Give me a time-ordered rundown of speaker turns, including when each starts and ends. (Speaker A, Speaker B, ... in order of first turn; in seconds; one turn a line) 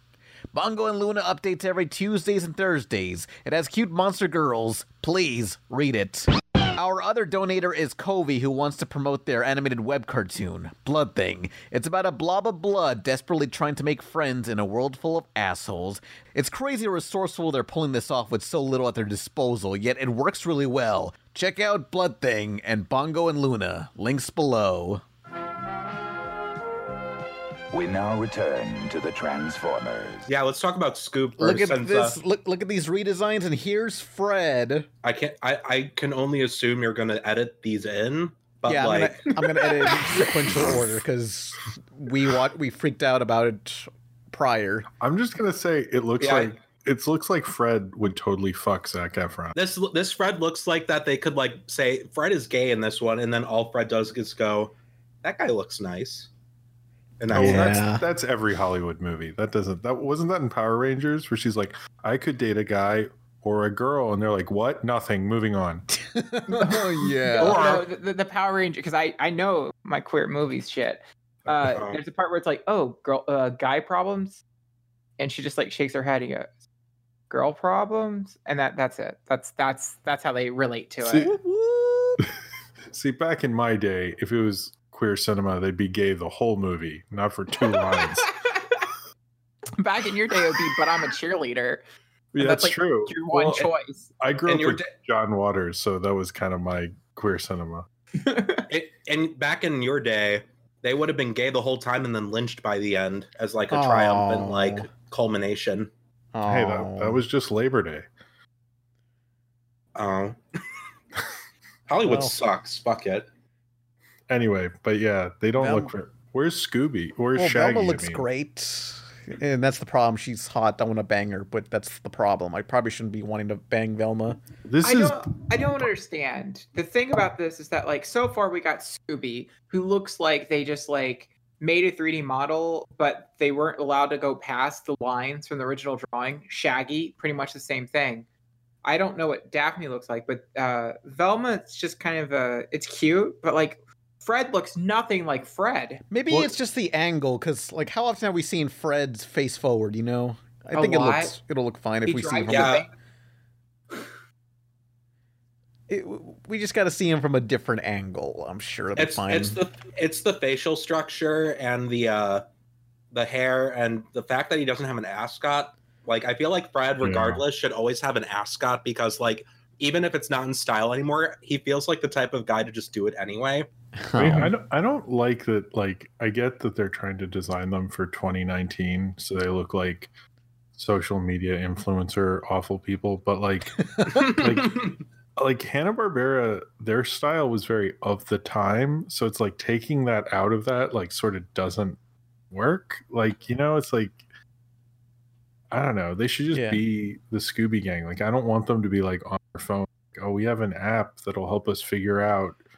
Speaker A: 0.5-25.0
Speaker B: 27.7-30.3
Speaker C: 30.3-32.2
Speaker A: 31.4-34.9
Speaker C: 35.0-39.6
Speaker A: 38.7-44.9
Speaker D: 45.0-49.5
Speaker C: 46.2-46.5
Speaker C: 49.5-56.3
Speaker C: 57.2-57.8
Speaker D: 57.3-65.8
Speaker A: 57.3-58.1
Speaker A: 65.9-67.6
Speaker E: 66.5-74.4
Speaker C: 67.4-67.8
Speaker C: 71.7-72.0
Speaker E: 75.2-76.5
Speaker E: 77.3-81.3
Speaker D: 81.1-81.3
Speaker A: 81.1-82.2
Speaker D: 82.9-88.3
Speaker E: 87.6-88.8
Speaker E: 89.8-91.8
Speaker D: 92.3-97.9
Speaker E: 92.4-94.1
Speaker C: 94.5-94.9
Speaker E: 98.2-98.7
Speaker C: 98.7-105.9
Speaker A: 103.7-104.9
Speaker A: 106.3-107.2
Speaker D: 106.4-108.1
Speaker C: 110.0-110.4
Speaker C: 111.9-113.3
Speaker A: 112.0-112.4
Speaker D: 114.3-118.3
Speaker A: 115.6-115.9
Speaker A: 117.3-124.4
Speaker D: 124.7-125.8
Speaker E: 124.8-138.2
Speaker E: 138.8-146.0
Speaker A: 146.1-152.8
Speaker E: 150.7-151.3
Speaker E: 152.1-152.9
Speaker C: 152.5-152.8
Speaker A: 155.9-159.6
Speaker C: 159.0-162.4
Speaker C: 163.1-173.7
Speaker D: 167.0-167.4
Speaker A: 174.0-174.5
Speaker D: 174.1-180.1
Speaker D: 180.8-192.0
Speaker A: 183.8-184.3
Speaker C: 184.2-184.9
Speaker D: 192.5-194.2
Speaker D: 195.7-202.6
Speaker A: 196.5-196.8